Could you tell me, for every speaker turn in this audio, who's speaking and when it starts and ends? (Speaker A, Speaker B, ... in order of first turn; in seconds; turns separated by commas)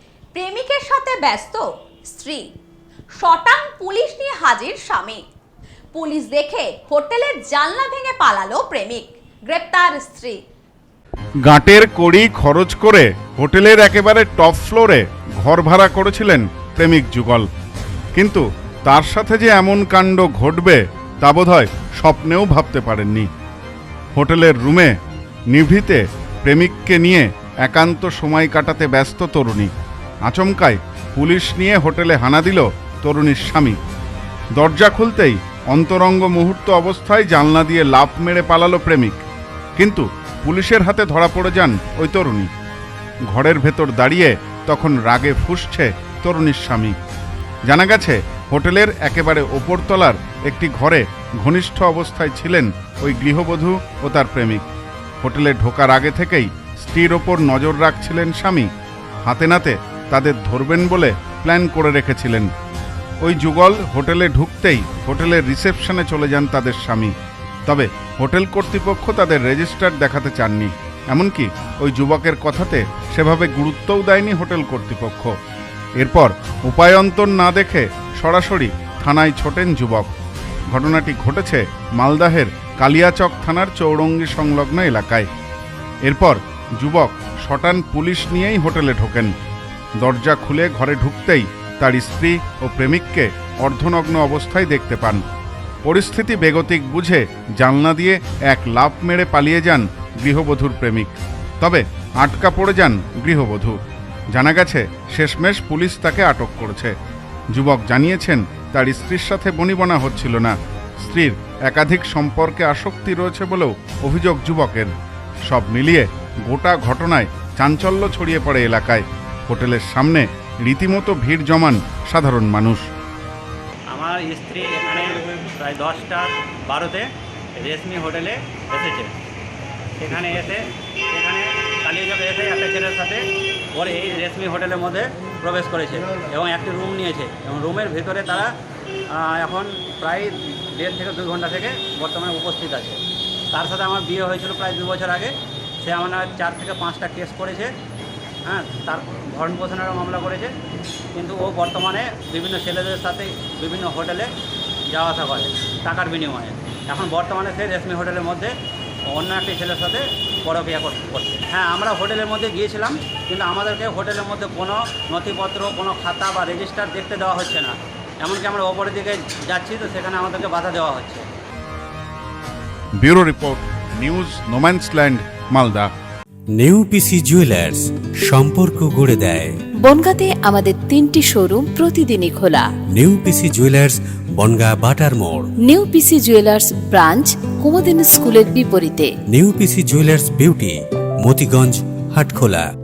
Speaker A: 0.3-2.5, Speaker A: 3.1-5.2, Speaker A: 5.9-10.4, Speaker B: 11.4-17.5, Speaker B: 18.1-23.3, Speaker B: 24.1-24.9, Speaker B: 25.5-29.7, Speaker B: 30.3-33.8, Speaker B: 34.5-39.2, Speaker B: 39.8-42.5, Speaker B: 43.3-47.0, Speaker B: 47.7-54.6, Speaker B: 55.2-58.7, Speaker B: 59.2-62.5, Speaker B: 63.2-67.1, Speaker B: 67.7-75.3, Speaker B: 76.0-80.1, Speaker B: 80.7-85.3, Speaker B: 86.0-89.3, Speaker B: 90.0-95.2, Speaker B: 95.8-103.7, Speaker B: 104.3-106.9, Speaker B: 107.5-114.9, Speaker B: 115.5-122.8, Speaker C: 123.9-127.0, Speaker C: 127.6-129.1, Speaker C: 130.0-133.2, Speaker C: 133.7-138.5, Speaker C: 139.1-143.0, Speaker C: 143.5-147.7, Speaker C: 148.4-150.5, Speaker C: 151.1-154.3, Speaker C: 154.9-158.5, Speaker C: 159.1-171.2, Speaker B: 173.0-175.9, Speaker D: 176.6-179.5, Speaker E: 179.8-182.7, Speaker D: 182.9-185.5, Speaker E: 185.6-189.1, Speaker D: 189.3-192.7